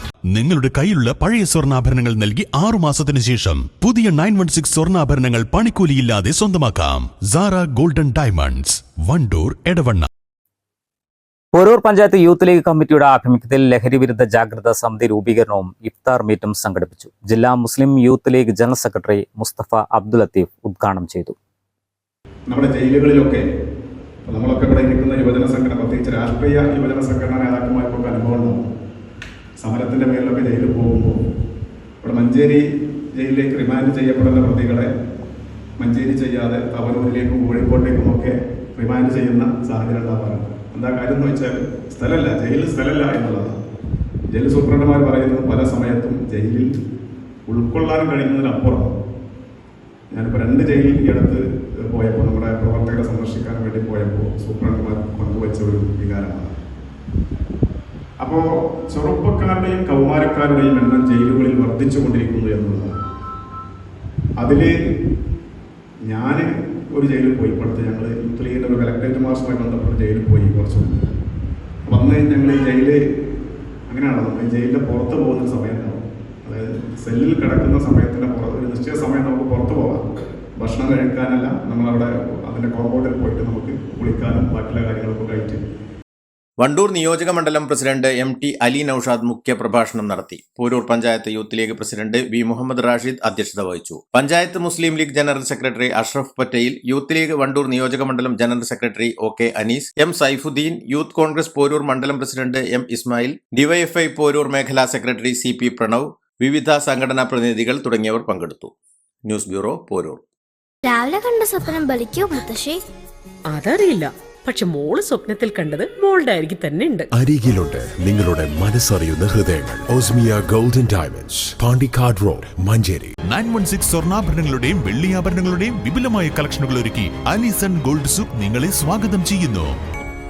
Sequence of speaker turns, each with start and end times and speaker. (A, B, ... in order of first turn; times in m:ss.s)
0:00.3-0:10.1 A
0:11.5-0:21.3 B
0:22.5-0:23.4 C
0:24.2-0:28.7 C
0:29.6-0:31.2 C
0:32.0-0:34.9 C
0:35.8-0:43.5 C
0:44.3-0:46.7 C
0:47.5-0:48.9 C
0:50.1-0:56.5 C
0:58.2-1:02.9 C
1:04.4-1:04.7 C
1:06.0-1:11.1 C
1:11.8-1:13.0 C
1:13.9-1:20.0 C
1:20.6-1:25.6 C
1:26.6-1:48.7 D
1:49.2-1:50.2 D
1:50.8-1:52.8 E
1:53.5-1:57.0 F
1:57.1-2:03.1 G
2:03.3-2:09.7 A